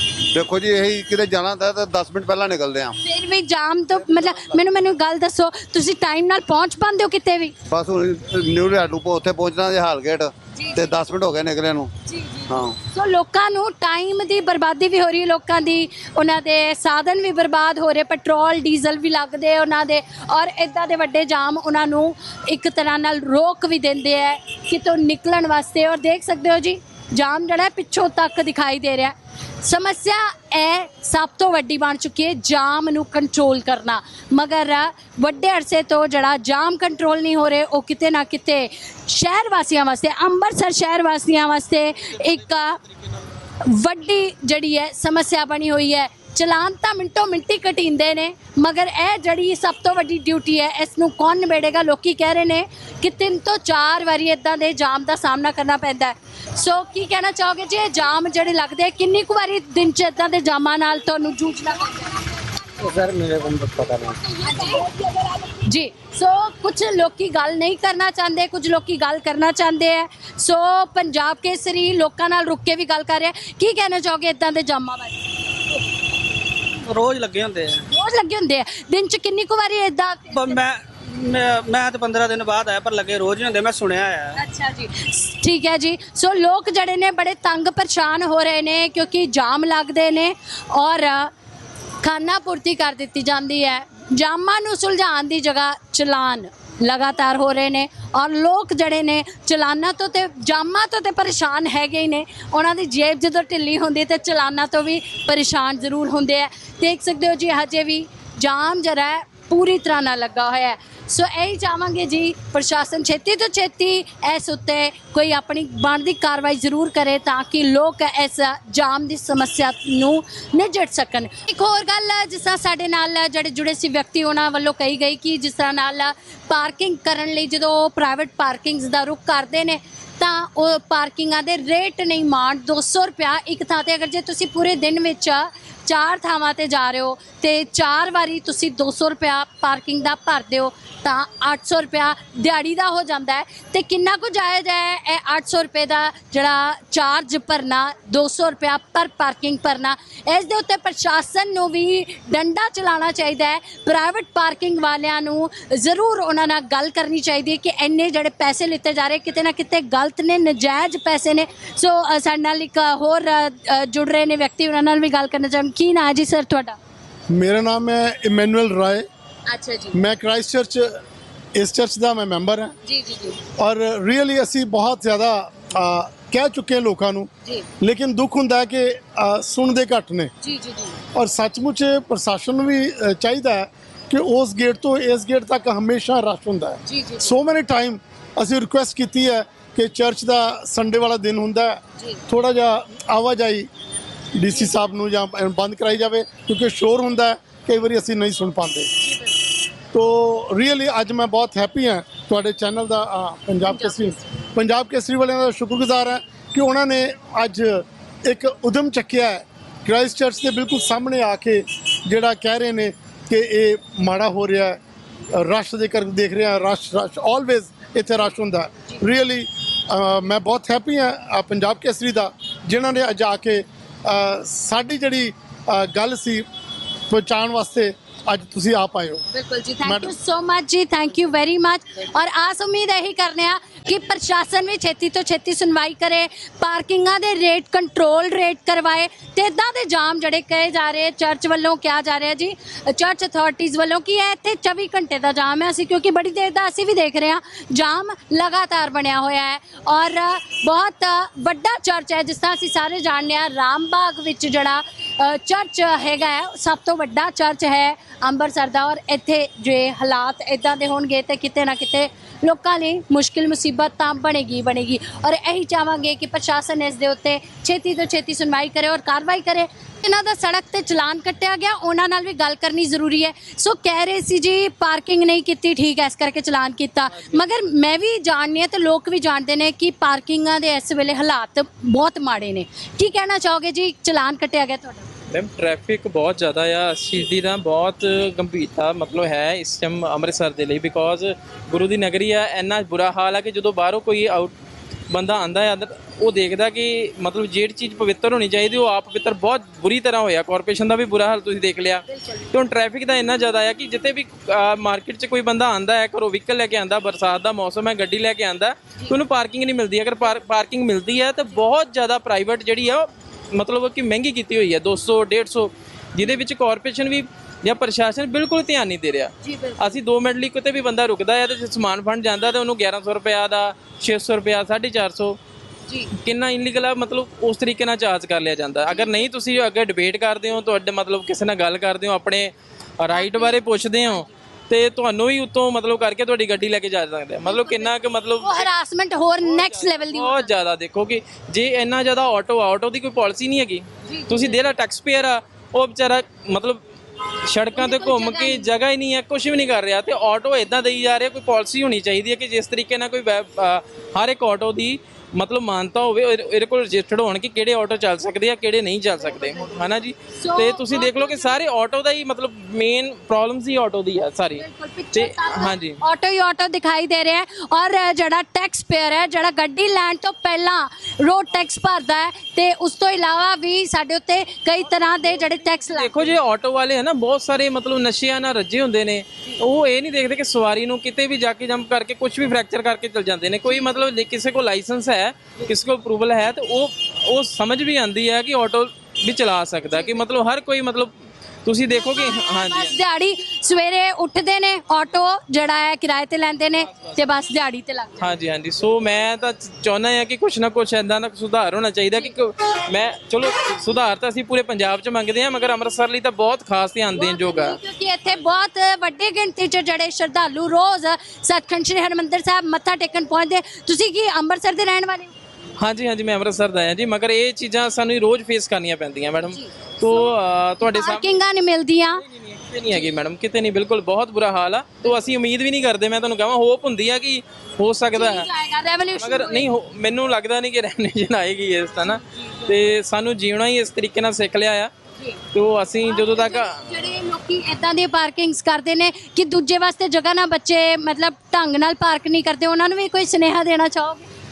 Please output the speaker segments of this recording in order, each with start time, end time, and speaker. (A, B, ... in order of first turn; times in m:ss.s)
0:00.3-0:03.0 A
0:03.0-0:07.5 B
0:03.9-0:04.6 A
0:07.7-0:11.9 A
0:10.5-0:10.9 B
0:12.0-0:42.8 B
0:12.5-0:12.7 A
0:43.6-1:02.3 B
1:02.8-1:04.1 A
1:04.3-1:15.2 B
1:16.8-1:17.8 C
1:17.9-1:20.6 B
1:20.3-1:24.4 C
1:24.3-1:31.3 B
1:32.0-2:46.8 B
2:47.3-2:49.0 D
2:49.5-2:50.0 B
2:49.9-2:51.0 D
2:51.5-2:52.7 D
2:52.8-2:53.4 B
2:53.6-3:00.3 D
3:00.4-3:01.0 B
3:01.1-3:13.7 D
3:06.8-3:07.3 B
3:14.3-3:18.9 D
3:14.5-3:14.8 B
3:19.0-3:19.4 B
3:19.9-3:34.8 D
3:23.7-3:24.1 B
3:35.3-3:46.4 D
3:47.1-3:49.2 D
3:49.3-4:45.0 B
3:49.8-3:50.2 D
4:45.3-4:54.5 E
4:55.1-5:25.4 E
5:02.1-5:02.4 B
5:19.4-5:20.0 B
5:25.9-5:26.1 B
5:26.2-5:38.7 E
5:28.9-5:29.2 B
5:33.1-5:34.3 B
5:37.4-5:40.5 B
5:39.4-5:46.8 E
5:44.0-5:44.7 B
5:47.4-6:04.6 E
5:47.8-5:48.7 B
6:00.3-6:01.6 B
6:04.5-6:16.4 B
6:05.1-6:06.0 E
6:15.2-6:31.1 E
6:29.9-6:30.2 B
6:31.6-6:33.0 E
6:32.2-6:38.3 B
6:38.2-6:47.8 E
6:47.1-6:55.3 B
6:55.8-7:01.3 E
6:59.5-7:00.3 B
7:00.9-7:02.2 B
7:02.2-7:08.5 E
7:08.1-7:09.7 B
7:09.2-7:14.9 E
7:12.0-7:12.7 B
7:15.5-7:16.8 E
7:16.0-7:24.2 B